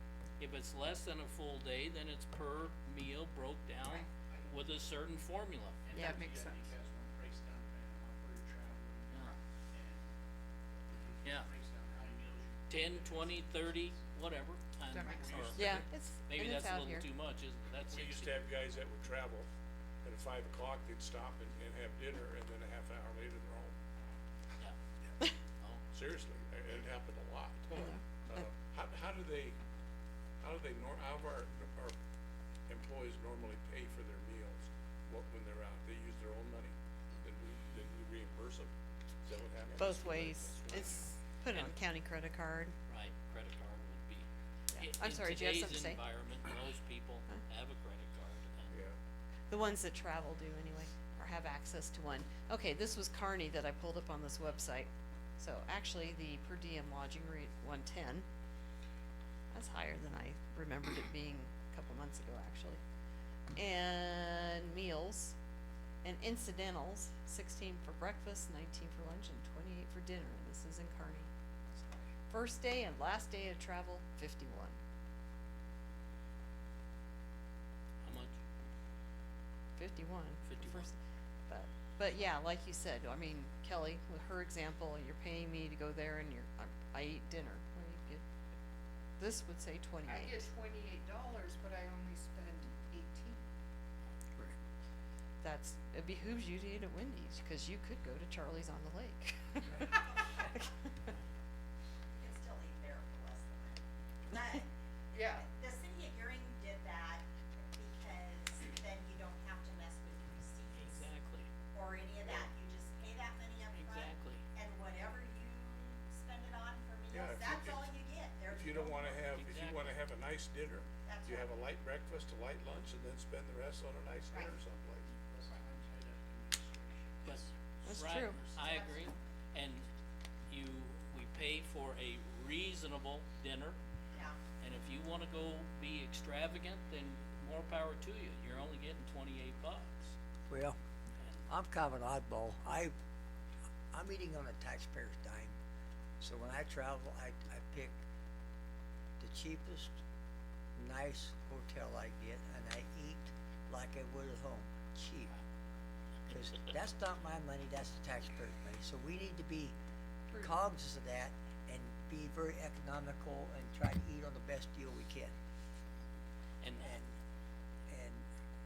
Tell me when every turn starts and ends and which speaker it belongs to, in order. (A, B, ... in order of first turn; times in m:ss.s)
0:00.4-0:05.8 A
0:04.1-0:04.8 B
0:05.8-0:10.1 B
0:05.9-0:06.2 C
0:06.0-0:06.7 D
0:10.9-0:14.0 B
0:11.2-0:11.5 A
0:12.7-0:18.3 A
0:14.9-0:15.2 D
0:15.0-0:15.9 B
0:15.5-0:17.1 C
0:17.9-0:19.5 E
0:20.0-0:23.7 E
0:25.9-0:29.6 E
0:27.8-0:28.5 C
0:30.4-0:32.0 E
0:32.7-0:38.7 E
0:39.2-0:41.0 E
0:39.7-0:42.8 C
0:41.5-0:41.8 A
0:42.9-0:48.8 A
0:44.7-0:46.1 C
0:48.7-0:49.0 E
0:49.5-0:58.3 C
0:59.5-1:02.8 C
1:03.5-1:05.4 C
1:06.0-1:11.3 C
1:12.2-1:14.8 C
1:18.0-1:18.4 A
1:19.8-1:28.2 C
1:20.4-1:20.9 A
1:29.2-1:30.4 C
1:30.0-1:33.4 D
1:35.4-1:41.1 C
1:39.9-1:40.6 F
1:42.1-1:51.1 F
1:45.1-1:45.4 D
1:50.7-1:51.5 A
1:51.7-1:59.2 F
1:53.7-1:54.4 A
1:57.1-1:57.8 E
1:58.5-2:05.1 E
1:59.1-2:00.0 A
2:01.0-2:01.6 F
2:04.3-2:04.6 F
2:05.2-2:08.4 B
2:07.2-2:09.9 A
2:07.8-2:08.5 C
2:08.5-2:09.3 F
2:10.5-2:13.8 A
2:14.1-2:14.4 F
2:14.6-2:20.2 A
2:20.5-2:20.8 G
2:21.2-2:21.4 A
2:21.5-2:22.9 G
2:23.9-2:25.6 G
2:26.2-2:28.0 G
2:29.2-2:30.0 G
2:30.8-2:35.3 G
2:36.3-2:39.8 G
2:40.3-2:40.6 C
2:40.4-2:45.3 G
2:46.6-2:47.0 A
2:46.8-2:47.2 G
2:47.9-2:48.3 G